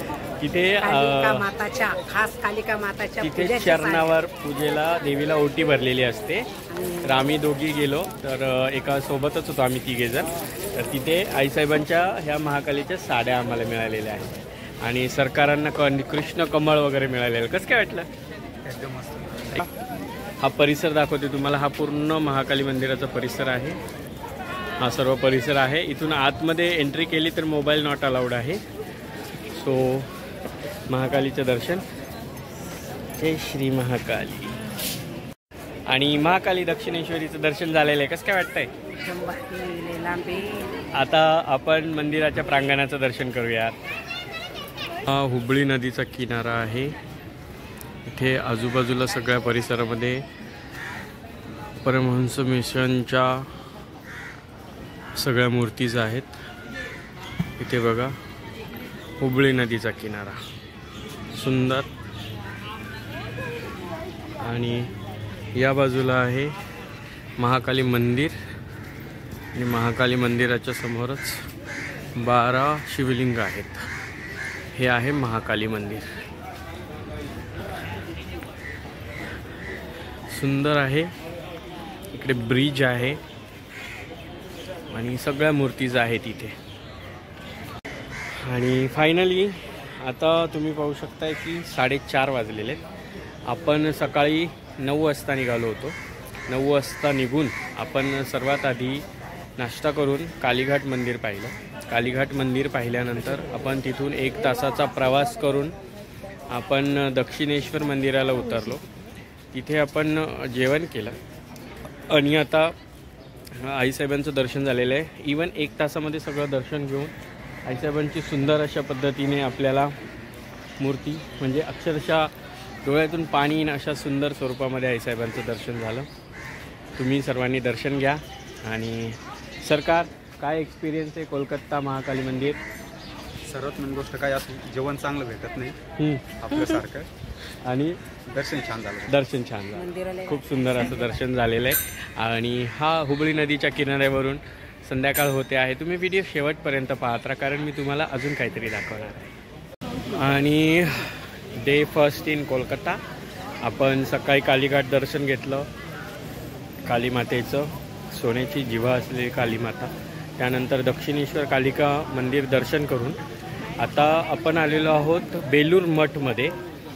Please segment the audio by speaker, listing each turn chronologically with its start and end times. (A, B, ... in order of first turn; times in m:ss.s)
0:00.4-0:01.4 A
0:00.8-0:04.1 B
0:03.2-0:06.5 A
0:06.7-0:07.2 B
0:07.0-0:18.1 A
0:18.6-0:19.7 C
0:20.4-0:23.8 A
0:24.8-0:28.6 A
0:29.5-0:30.1 A
0:30.9-0:31.8 A
0:33.2-0:34.6 A
0:35.9-0:38.7 A
0:38.9-0:40.8 B
0:40.9-0:43.8 A
0:45.0-0:46.9 A
0:48.0-0:50.2 A
0:51.8-0:53.5 A
0:55.1-0:56.3 A
0:57.6-0:58.1 A
0:59.2-1:00.4 A
1:01.3-1:01.9 A
1:04.4-1:04.9 A
1:05.5-1:06.5 A
1:07.4-1:08.4 A
1:09.5-1:11.4 A
1:12.2-1:13.9 A
1:14.7-1:16.1 A
1:20.3-1:21.1 A
1:22.1-1:23.2 A
1:24.9-1:26.6 A
1:28.3-1:32.8 A
1:33.4-1:36.0 A
1:36.5-1:39.0 A
1:39.6-1:45.7 A
1:46.5-1:48.8 A
1:49.5-1:51.2 A
1:52.1-1:52.7 A
1:53.6-1:57.1 A
1:57.6-1:59.9 A
2:00.8-2:02.3 A
2:02.8-2:06.1 A
2:07.0-2:12.6 A
2:13.4-2:15.8 C
2:16.0-2:16.8 A
2:16.4-2:17.1 C
2:17.6-2:18.0 A
2:18.3-2:19.2 C
2:19.0-2:29.3 A
2:19.7-2:21.2 B
2:30.1-2:33.0 A
2:33.6-2:35.7 A
2:36.8-2:43.2 A
2:43.8-2:46.5 A